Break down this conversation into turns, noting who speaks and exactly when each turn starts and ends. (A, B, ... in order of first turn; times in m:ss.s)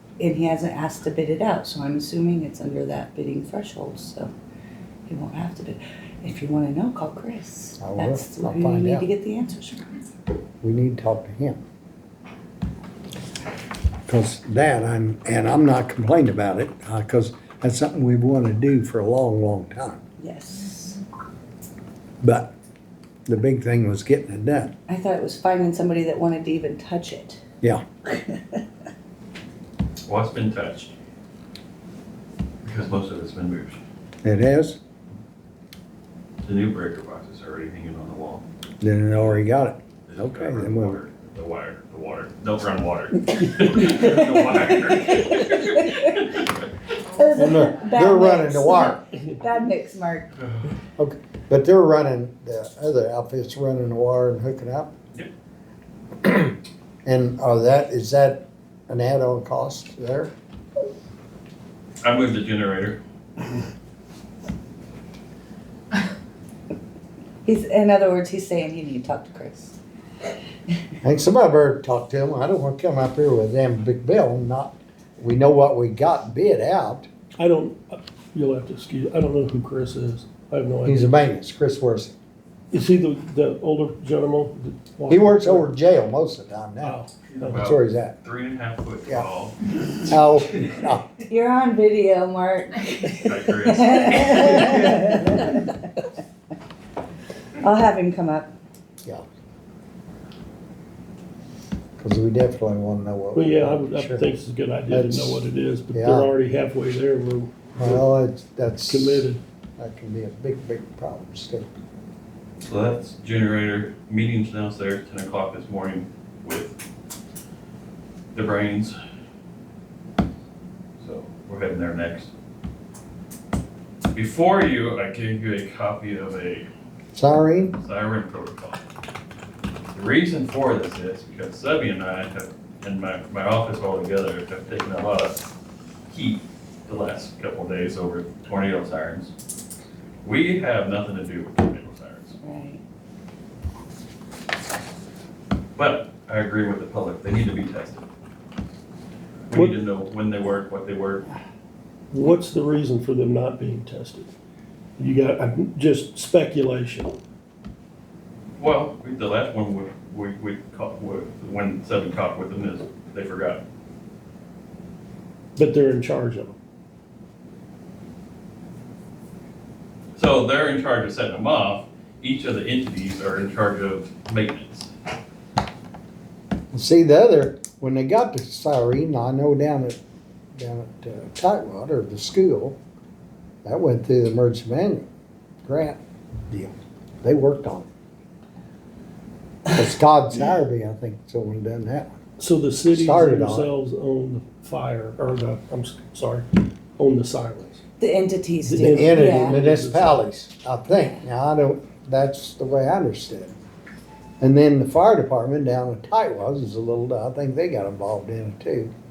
0:00.2-0:04.3 A
0:05.1-0:10.0 A
0:07.8-0:09.1 B
0:10.6-0:11.6 B
0:14.1-0:20.0 B
0:20.2-0:21.0 A
0:22.2-0:22.5 B
0:23.3-0:24.7 B
0:24.9-0:27.4 A
0:28.1-0:28.6 A
0:30.1-0:30.9 C
0:32.6-0:33.8 C
0:34.2-0:34.8 B
0:36.4-0:38.4 C
0:38.8-0:41.0 B
0:40.1-0:46.7 C
0:43.8-0:46.2 A
0:47.1-0:50.3 A
0:47.4-0:49.0 B
0:51.0-0:54.9 B
0:56.2-0:56.5 B
0:57.0-1:00.3 B
1:02.0-1:03.0 C
1:07.4-1:09.8 A
1:11.0-1:17.1 B
1:17.4-1:21.0 D
1:20.8-1:22.2 B
1:22.7-1:25.7 D
1:25.1-1:27.0 B
1:26.8-1:27.8 D
1:27.4-1:29.6 C
1:27.5-1:28.2 B
1:29.9-1:31.1 B
1:31.3-1:36.1 A
1:33.2-1:34.9 C
1:37.6-1:38.5 A
1:42.0-1:44.3 B
1:43.4-1:48.0 D
1:44.9-1:45.4 B
1:45.9-1:46.3 B
1:47.8-1:51.7 B
1:48.9-1:49.4 D
1:52.6-1:56.8 C
1:58.3-1:59.0 C
2:01.0-2:02.3 C
2:04.1-2:06.7 C
2:07.2-2:07.8 B
2:07.7-2:08.8 C
2:09.9-2:15.4 C
2:16.1-2:19.3 C
2:20.2-2:22.4 C
2:22.4-2:22.8 A
2:25.8-2:28.1 C
2:29.5-2:31.3 C
2:32.1-2:34.3 D
2:35.0-2:37.2 D
2:38.6-2:43.6 C
2:45.6-2:46.6 D
2:50.2-2:54.9 C
2:56.7-3:00.0 B
3:00.6-3:02.8 B
3:03.6-3:05.1 B
3:05.6-3:07.9 B
3:09.7-3:12.2 B
3:12.4-3:17.8 D
3:12.9-3:13.7 B
3:18.0-3:19.6 A
3:18.6-3:20.2 D
3:18.8-3:23.6 B
3:24.4-3:28.9 B